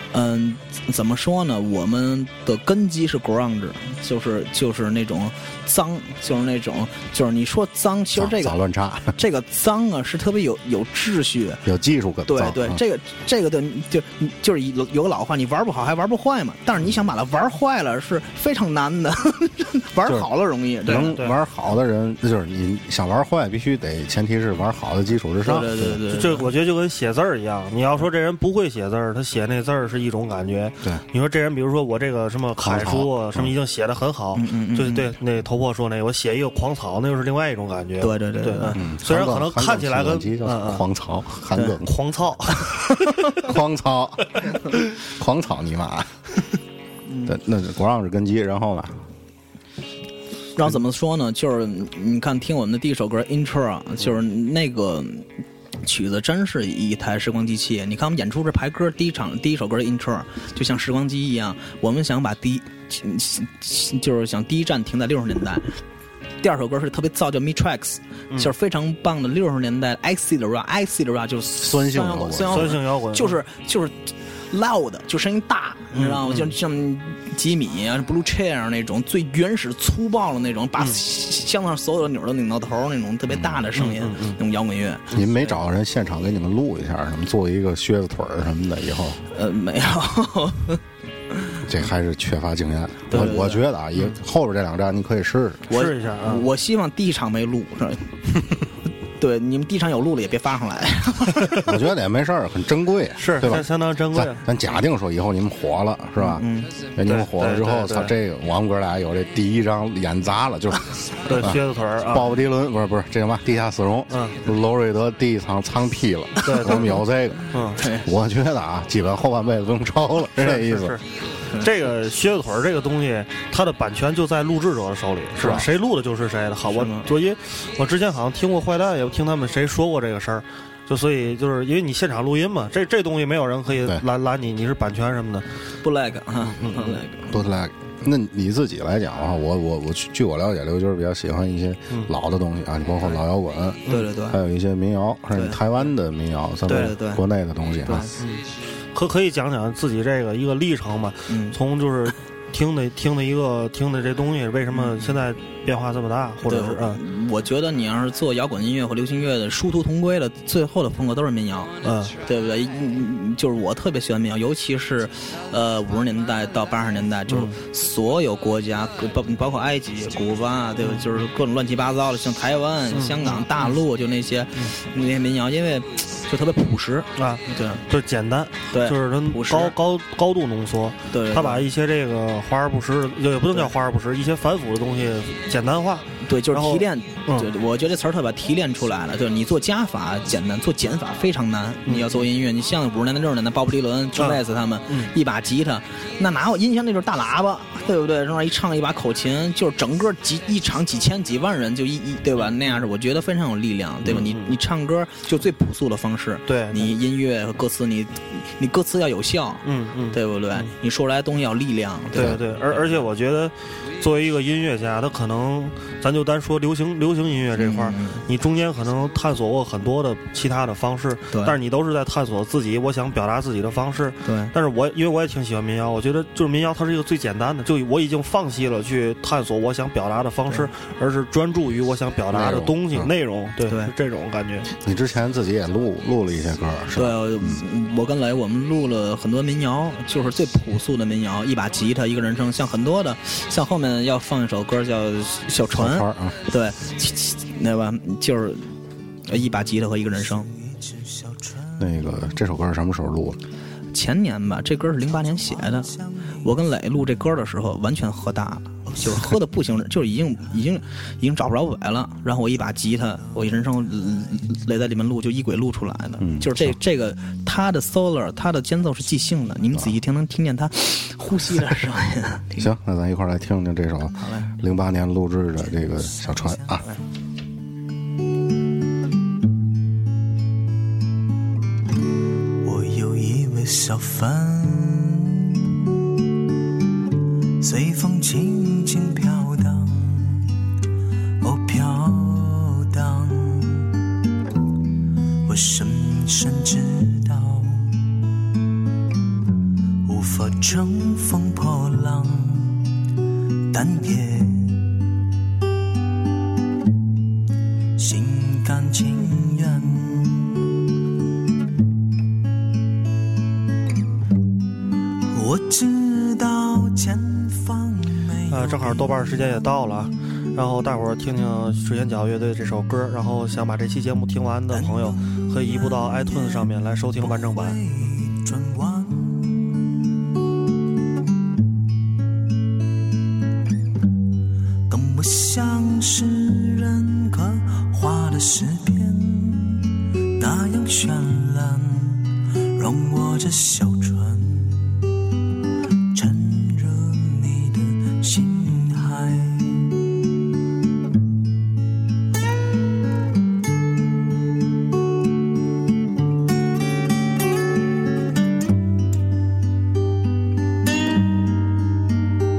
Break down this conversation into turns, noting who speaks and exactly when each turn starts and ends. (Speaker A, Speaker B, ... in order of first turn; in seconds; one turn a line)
Speaker A: 0.1-8.6
Speaker B: 8.2-9.2
Speaker A: 9.2-11.6
Speaker B: 11.7-12.8
Speaker A: 12.3-21.2
Speaker B: 20.9-26.0
Speaker C: 21.0-21.3
Speaker A: 25.4-26.5
Speaker C: 26.1-40.9
Speaker B: 32.6-33.5
Speaker A: 34.4-35.1
Speaker A: 38.0-38.8
Speaker B: 38.7-42.0
Speaker C: 41.9-42.9
Speaker B: 43.3-46.3
Speaker A: 47.1-47.3
Speaker B: 47.3-49.0
Speaker A: 50.6-55.3
Speaker A: 55.8-65.8
Speaker A: 66.4-85.5
Speaker B: 71.6-72.7
Speaker C: 72.5-73.4
Speaker C: 75.9-76.5
Speaker C: 83.7-84.4
Speaker B: 85.1-89.2
Speaker A: 89.3-90.8
Speaker B: 91.7-95.7
Speaker A: 93.1-93.6
Speaker A: 95.7-98.2
Speaker C: 95.7-96.5
Speaker A: 99.2-101.7
Speaker B: 101.7-106.4
Speaker C: 103.2-104.4
Speaker A: 106.2-106.7
Speaker B: 107.0-121.0
Speaker C: 107.0-108.1
Speaker C: 111.3-112.4
Speaker C: 114.1-114.4
Speaker C: 116.4-116.9
Speaker C: 117.5-117.8
Speaker A: 117.8-118.0
Speaker C: 120.4-135.5
Speaker A: 126.7-127.1
Speaker A: 135.8-137.4
Speaker C: 136.6-137.0
Speaker B: 137.3-148.1
Speaker A: 143.9-144.4
Speaker A: 145.3-145.6
Speaker C: 146.7-146.9
Speaker A: 146.7-147.2
Speaker A: 147.9-148.2
Speaker C: 148.2-157.0
Speaker A: 151.3-151.6
Speaker A: 154.7-155.2
Speaker A: 156.5-161.7
Speaker C: 161.8-162.2
Speaker A: 162.2-177.8
Speaker C: 167.3-167.6
Speaker C: 170.8-171.2
Speaker C: 172.9-173.7
Speaker C: 177.2-187.5
Speaker A: 178.7-179.8
Speaker A: 181.1-181.6
Speaker A: 186.2-212.4
Speaker C: 191.9-192.2
Speaker C: 194.2-195.1
Speaker C: 204.0-204.5
Speaker C: 206.5-206.9
Speaker C: 209.6-210.7
Speaker C: 212.2-234.7
Speaker A: 217.6-218.2
Speaker A: 221.3-221.6
Speaker A: 224.2-224.5
Speaker B: 232.3-233.1
Speaker A: 233.7-233.9
Speaker B: 234.7-237.6
Speaker A: 236.9-248.7
Speaker B: 245.7-246.3
Speaker A: 249.3-250.5
Speaker D: 250.1-251.9
Speaker B: 251.8-253.4
Speaker A: 253.9-272.7
Speaker D: 255.1-256.5
Speaker D: 263.2-263.8
Speaker B: 266.2-266.8
Speaker B: 272.6-276.9
Speaker A: 274.2-274.5
Speaker D: 276.3-276.8
Speaker D: 282.6-285.7
Speaker D: 287.6-290.7
Speaker D: 291.4-294.0
Speaker D: 295.4-298.2
Speaker D: 300.0-302.9
Speaker D: 303.7-305.1
Speaker D: 308.0-310.7
Speaker D: 315.2-319.6
Speaker C: 318.5-327.8
Speaker D: 324.7-330.0
Speaker D: 334.9-345.1
Speaker D: 346.1-350.0